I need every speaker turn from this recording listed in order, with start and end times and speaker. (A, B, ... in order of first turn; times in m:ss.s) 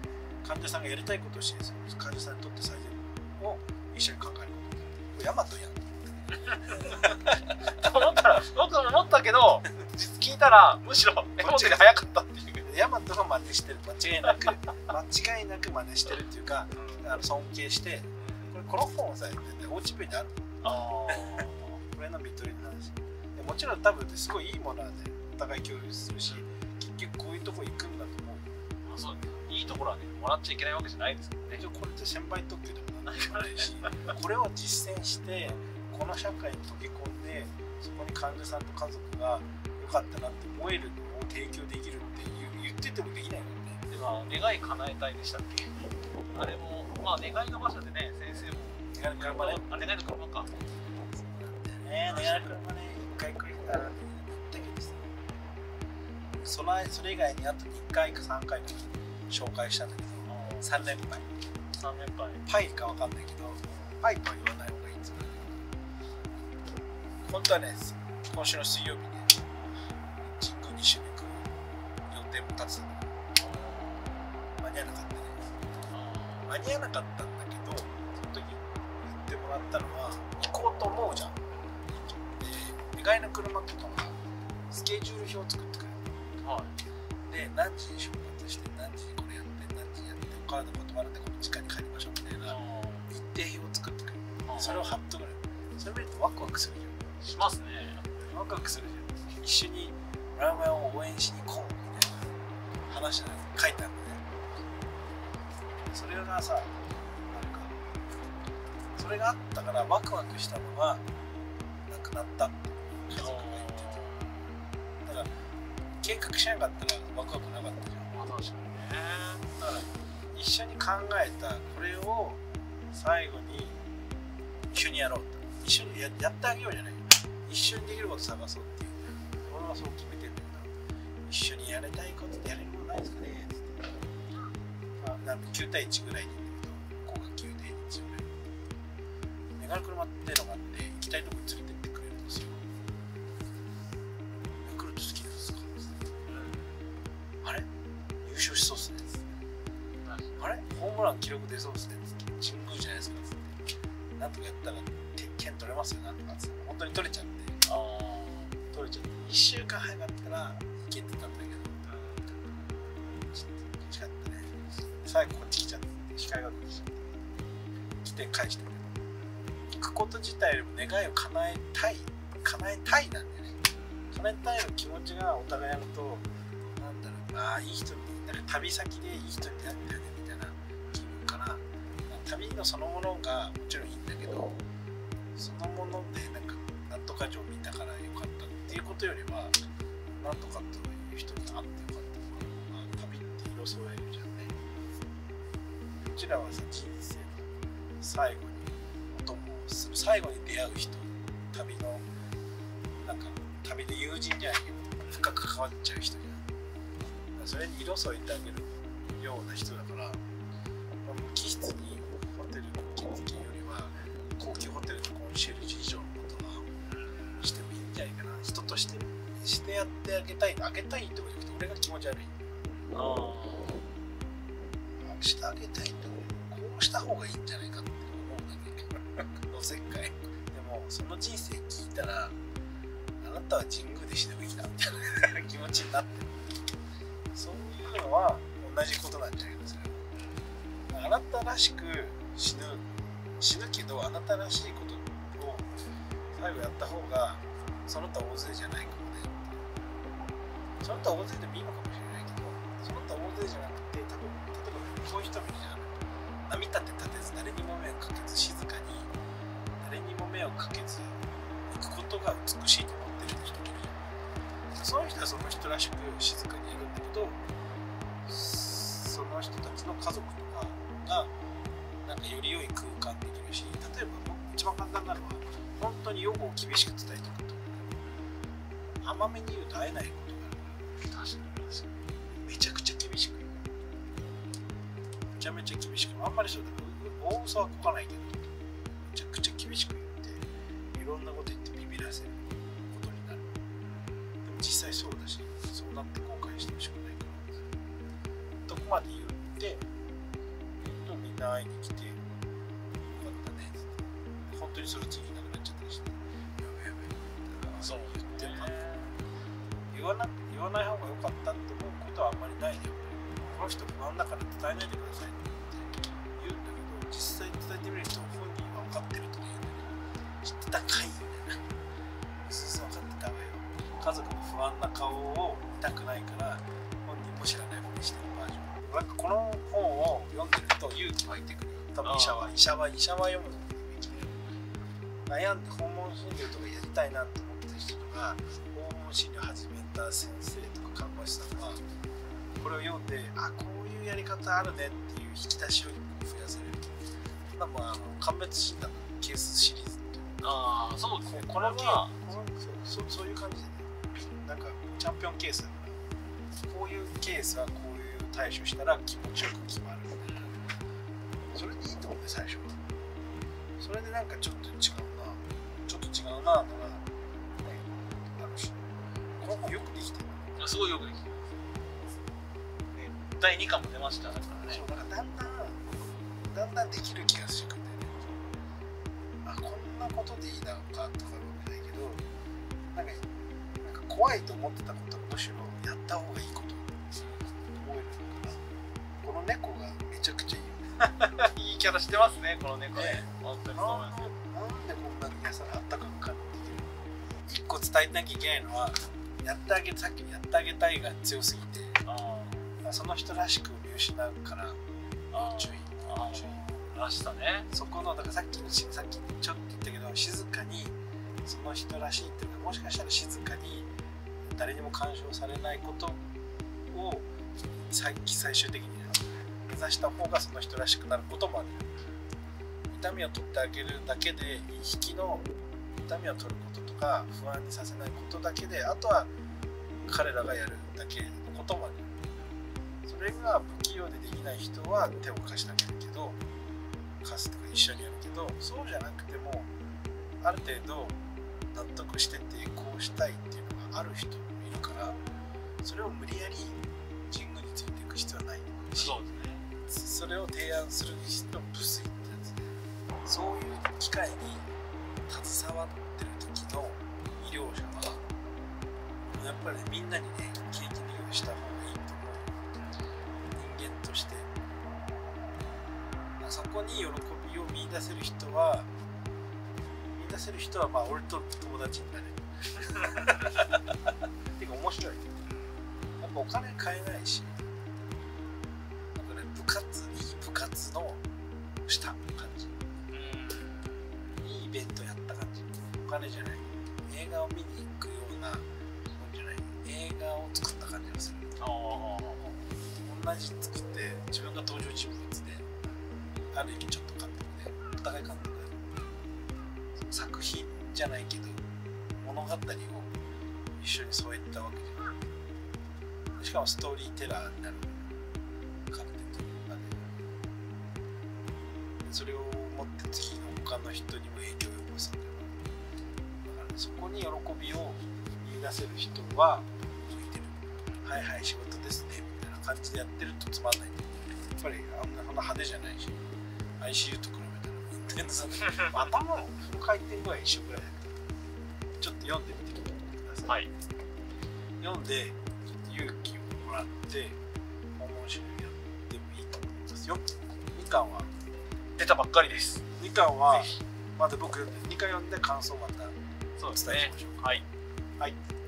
0:00.4-0:07.7 A
0:06.4-0:12.6 B
0:11.4-0:11.9 A
0:12.6-0:20.5 A
0:16.7-0:17.1 B
0:18.2-0:18.6 B
0:20.6-0:21.8 B
0:21.1-0:28.4 A
0:26.3-0:26.5 B
0:28.8-0:31.6 B
0:31.5-0:43.8 A
0:33.1-0:34.1 B
0:43.9-0:50.5 B
0:48.9-0:49.6 A
0:50.9-0:55.2 A
0:52.0-0:52.5 B
0:56.4-1:01.3 A
1:00.2-1:00.7 B
1:01.7-1:02.4 B
1:02.4-1:05.6 A
1:07.2-1:09.4 A
1:10.2-1:11.5 A
1:12.1-1:13.0 A
1:13.3-1:14.2 B
1:14.6-1:15.5 A
1:15.9-1:16.5 B
1:16.4-1:24.2 A
1:24.7-1:26.0 A
1:26.4-1:26.8 B
1:27.3-1:32.6 A
1:32.4-1:33.1 B
1:33.1-1:37.1 A
1:34.4-1:35.0 B
1:37.2-1:38.1 B
1:38.2-1:44.2 A
1:45.9-1:47.8 A
1:49.0-1:51.0 A
1:51.9-1:53.9 A
1:53.1-1:54.5 B
1:55.0-1:55.3 A
1:56.0-1:58.1 A
1:58.1-1:59.5 B
1:59.6-2:02.4 A
2:02.9-2:03.8 A
2:04.7-2:10.7 A
2:11.3-2:13.8 A
2:15.0-2:18.3 A
2:19.6-2:22.6 A
2:24.6-2:25.9 A
2:26.2-2:26.9 B
2:28.2-2:29.3 A
2:30.0-2:30.4 B
2:30.4-2:33.5 A
2:34.2-2:37.6 A
2:37.6-2:38.6 B
2:38.7-2:41.8 A
2:41.8-2:42.4 B
2:42.9-2:44.5 A
2:45.0-2:47.1 A
2:48.0-2:48.9 A
2:49.7-2:53.6 A
2:53.7-2:54.1 B
2:54.1-3:04.6 A
3:00.9-3:01.3 B
3:05.4-3:09.6 A
3:10.2-3:14.6 A
3:16.0-3:22.0 A
3:23.0-3:26.4 A
3:27.2-3:30.2 A
3:31.0-3:36.7 A
3:36.8-3:37.6 B
3:37.4-3:42.4 A
3:42.9-3:43.9 B
3:44.9-3:52.4 A
3:53.2-3:56.5 A
3:57.3-4:00.0 A
4:00.9-4:02.8 A
4:03.4-4:05.7 A
4:06.3-4:09.4 A
4:10.8-4:15.9 A
4:16.5-4:19.1 A
4:19.8-4:23.9 A
4:24.7-4:27.4 A
4:28.2-4:31.3 A
4:32.0-4:37.9 A
4:39.0-4:40.8 A
4:41.1-4:42.0 B
4:42.4-4:43.6 A
4:45.4-4:48.4 A
4:49.0-4:50.4 A
4:50.9-4:53.4 A
4:53.8-4:54.2 B
4:54.4-4:57.5 A
4:58.7-4:59.8 A
5:00.8-5:02.2 A
5:03.0-5:03.9 A
5:04.5-5:08.8 A
5:07.8-5:09.2 B
5:09.9-5:21.6 A
5:22.4-5:34.3 A
5:32.0-5:32.6 B
5:34.1-5:34.5 B
5:35.3-5:41.8 A
5:42.6-5:46.9 A
5:47.5-5:50.4 A
5:50.4-5:52.3 B
5:51.3-5:56.0 A
5:56.7-6:00.6 A
6:00.2-6:00.7 B
6:01.5-6:02.8 A
6:03.8-6:07.0 A
6:07.6-6:08.8 A
6:09.4-6:10.5 A
6:10.6-6:11.4 B
6:12.9-6:14.8 B
6:14.7-6:18.2 A
6:19.4-6:22.2 A
6:22.9-6:23.2 A
6:23.8-6:27.0 A
6:27.1-6:27.5 B
6:27.7-6:28.6 A
6:29.2-6:30.9 A
6:31.2-6:34.3 B
6:32.9-6:36.9 A
6:37.4-6:42.0 A
6:42.0-6:42.7 B
6:42.8-6:44.8 A
6:45.3-6:46.6 A
6:45.3-6:47.7 B
6:47.7-6:50.9 A
6:51.4-6:53.9 A
6:54.4-6:56.2 A
6:56.9-6:57.3 A
6:57.8-7:01.8 A
7:02.9-7:05.4 A
7:06.0-7:09.3 A
7:10.0-7:12.1 A
7:13.0-7:16.4 A
7:17.2-7:19.7 A
7:20.4-7:21.2 A
7:21.7-7:25.2 A
7:25.8-7:29.2 A
7:28.9-7:29.6 B
7:29.8-7:32.7 A
7:33.2-7:34.6 A
7:35.3-7:38.2 A
7:39.3-7:42.5 A
7:43.5-7:44.5 A
7:46.4-7:48.9 A
7:50.1-7:53.7 A
7:54.5-7:55.2 A
7:55.4-7:55.8 B
7:56.2-7:57.6 A
7:59.1-8:01.2 A
8:01.8-8:02.7 A
8:03.1-8:04.1 B
8:04.4-8:11.6 A
8:11.6-8:12.4 B
8:12.4-8:15.7 A
8:16.5-8:19.0 A
8:20.0-8:21.6 A
8:22.2-8:23.1 A
8:23.8-8:25.2 A
8:26.4-8:28.0 A
8:28.9-8:30.1 A
8:32.0-8:35.5 A
8:36.4-8:46.2 A
8:46.8-8:51.2 A
8:52.0-8:53.5 A
8:53.4-8:53.7 B
8:54.8-8:57.4 A
8:58.0-9:01.3 A
9:02.0-9:02.8 B
9:03.0-9:06.1 A
9:03.5-9:03.8 B
9:06.6-9:07.6 B
9:06.7-9:07.6 A